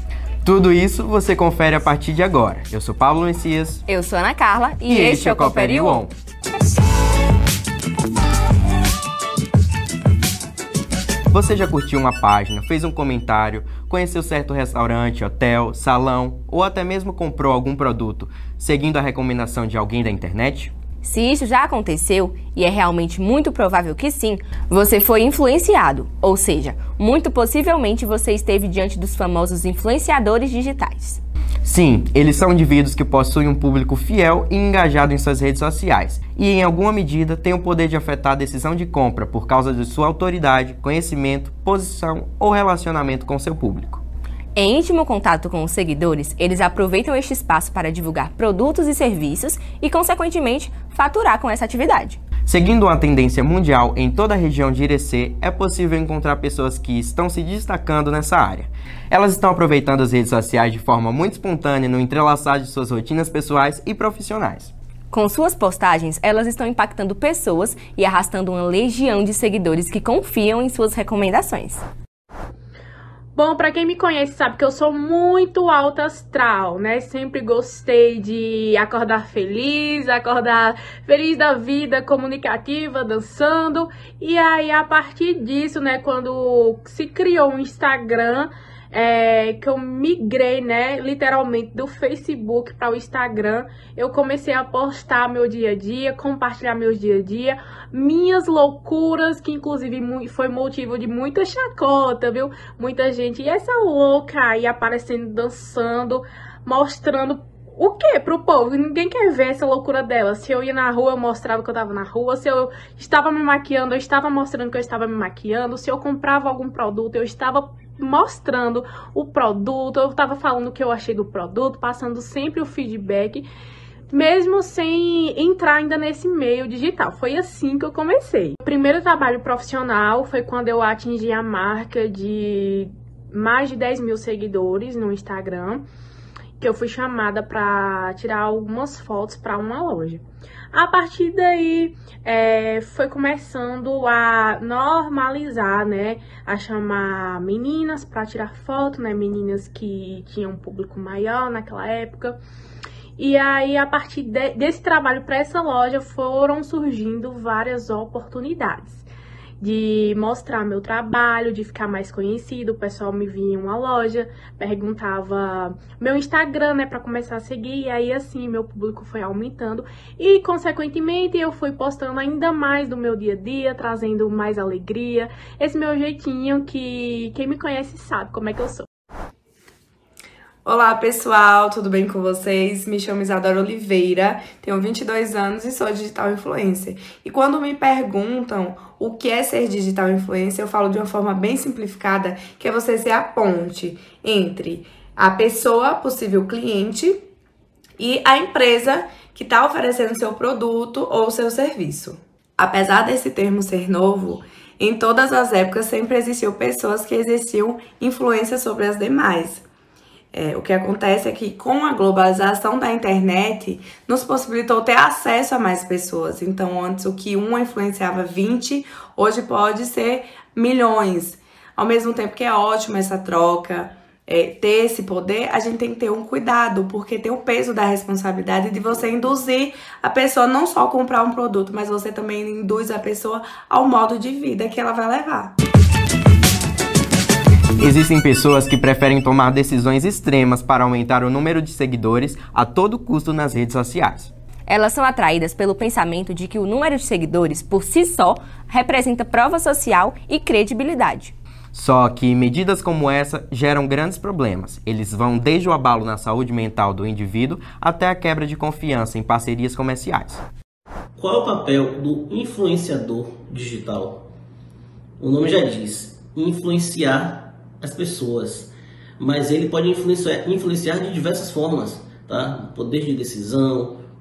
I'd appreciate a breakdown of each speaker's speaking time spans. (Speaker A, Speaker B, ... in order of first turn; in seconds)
Speaker A: 0.5-3.9, 4.9-6.1, 11.3-20.7, 31.6-44.0, 52.5-64.7, 237.8-244.3, 251.7-260.4
Speaker B: 3.9-6.0, 21.0-31.2, 44.5-52.2, 65.1-71.8, 244.7-251.3
Speaker C: 73.4-123.5, 124.1-135.8, 136.6-152.4, 153.2-159.0, 159.6-178.9
Speaker D: 180.7-197.2, 198.0-209.6, 210.3-235.6
Speaker E: 261.2-264.3, 265.2-274.0